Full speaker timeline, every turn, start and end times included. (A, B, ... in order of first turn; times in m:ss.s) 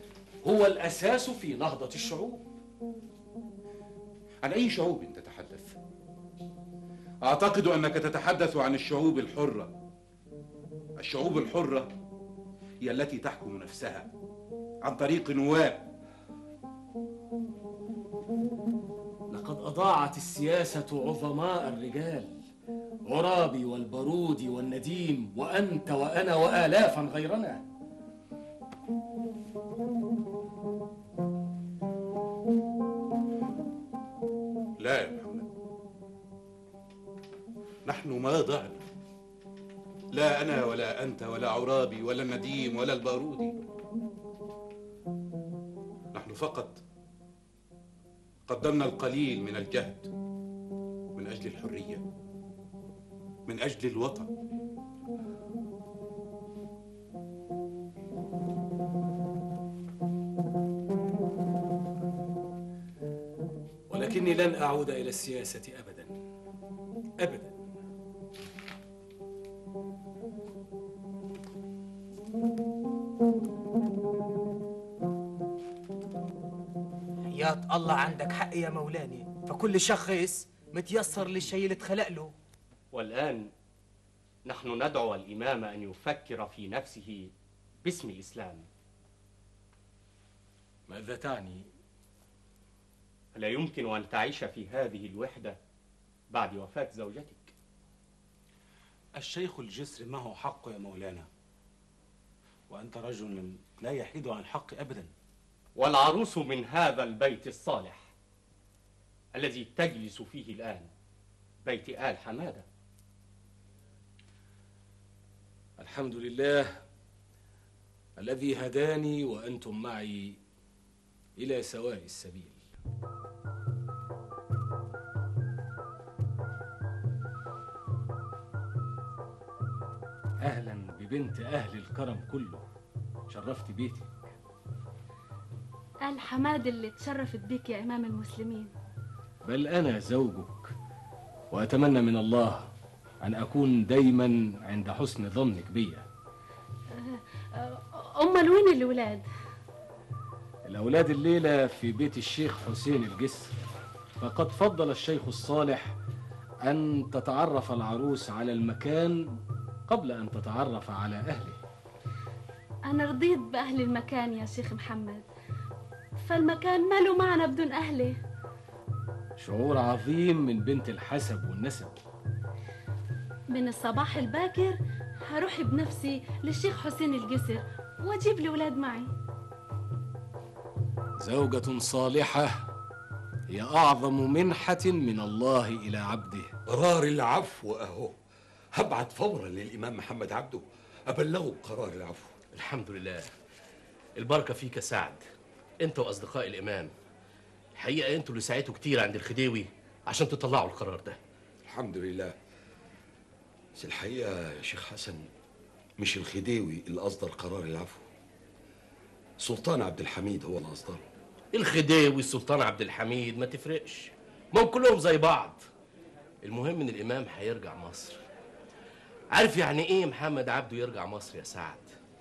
0:00.4-0:02.4 A
0:04.4-0:05.8 B
0:07.2-0:09.7 B
0:11.0-0:11.9 B
0:12.8-0:14.1 B
0:14.8-0:15.9 B
0:19.3-0:22.5 A
0:23.1-0:27.6 A
0:34.8-0:35.5 B
0:37.8-0:38.8 B
0:40.1-0:43.6 B
0:46.1-0:46.8 B
0:48.5-0:50.1 B
0:51.2-0:52.0 B
0:53.5-0:54.3 B
1:03.9-1:06.1 A
1:07.2-1:07.6 A
1:17.3-1:22.3 C
1:22.9-1:23.5 D
1:24.4-1:27.3 D
1:27.8-1:28.7 D
1:30.9-1:31.7 A
1:33.3-1:35.6 D
1:36.3-1:37.5 D
1:39.1-1:41.2 E
1:42.7-1:45.1 E
1:45.7-1:48.1 D
1:49.3-1:50.9 D
1:51.6-1:52.7 D
1:55.8-1:56.8 A
1:58.2-2:00.4 A
2:01.4-2:02.6 A
2:10.4-2:12.6 A
2:13.3-2:14.1 A
2:16.0-2:18.7 F
2:19.4-2:20.7 A
2:21.5-2:22.7 A
2:23.2-2:26.0 A
2:26.9-2:29.2 F
2:30.6-2:33.5 A
2:34.2-2:36.0 A
2:36.6-2:39.4 A
2:39.9-2:41.6 A
2:42.8-2:45.2 F
2:46.2-2:48.2 F
2:49.4-2:52.0 A
2:53.5-2:59.1 F
3:01.2-3:02.7 A
3:03.5-3:06.5 A
3:06.6-3:08.1 G
3:08.7-3:12.4 G
3:12.5-3:13.2 H
3:14.2-3:15.2 H
3:15.8-3:16.9 H
3:17.8-3:21.2 H
3:21.6-3:22.4 G
3:23.8-3:25.3 G
3:26.0-3:28.0 G
3:29.4-3:31.0 G
3:31.5-3:35.6 H
3:36.4-3:38.2 H
3:39.3-3:41.8 H